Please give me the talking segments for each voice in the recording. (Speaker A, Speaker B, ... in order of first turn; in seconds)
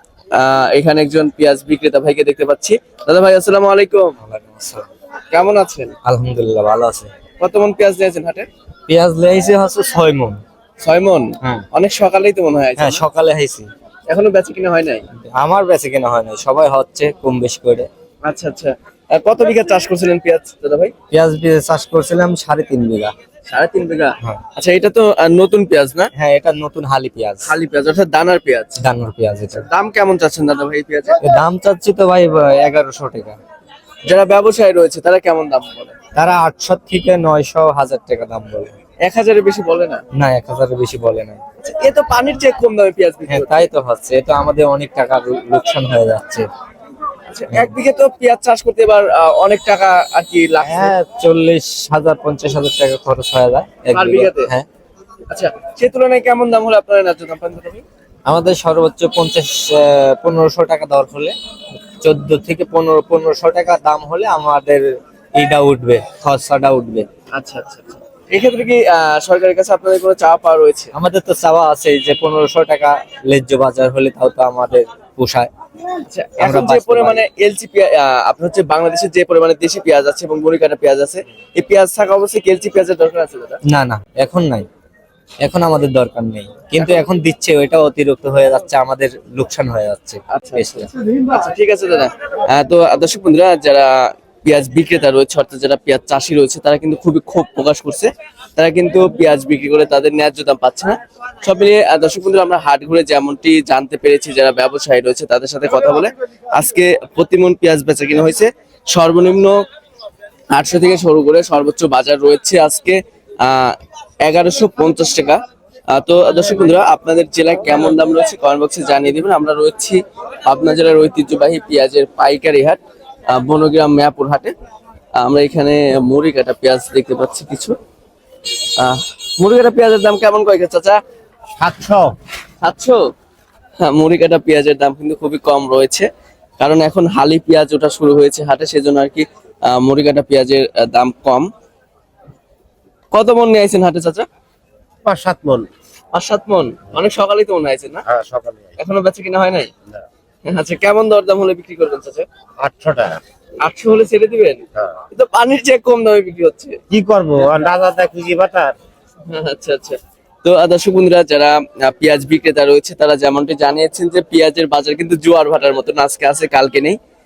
Speaker A: 0.3-4.1, 5.3-5.9, 7.4-8.5, 10.8-13.0, 14.1-15.0, 18.2-20.9, 23.5-26.1, 27.4-28.8, 29.5-31.2, 34.0-35.9, 39.0-40.0, 41.6-43.7, 47.3-50.9, 53.9-54.5, 55.3-57.8, 67.3-70.9, 76.1-83.6, 90.3-109.5, 110.5-124.5, 125.2-127.8, 128.8-131.0, 132.6-133.0, 133.8-136.1, 136.6-141.5, 143.1-144.3, 146.1-148.0, 148.8-149.7, 150.5-152.2, 153.6-156.8, 159.3-167.0
Speaker B: 4.2-4.8, 6.0-7.1, 8.9-10.4, 12.8-13.7, 15.3-17.9, 21.1-23.1, 26.1-27.5, 28.8-29.7, 31.2-33.4, 36.1-38.7, 40.1-41.4, 43.3-46.5, 50.6-54.6, 58.3-61.3, 62.0-67.1, 70.9-75.5, 76.4-77.2, 83.7-84.7, 85.4-90.9
Speaker C: 131.6-132.2, 145.0-145.7, 148.1-148.7, 152.6-153.2, 156.9-158.7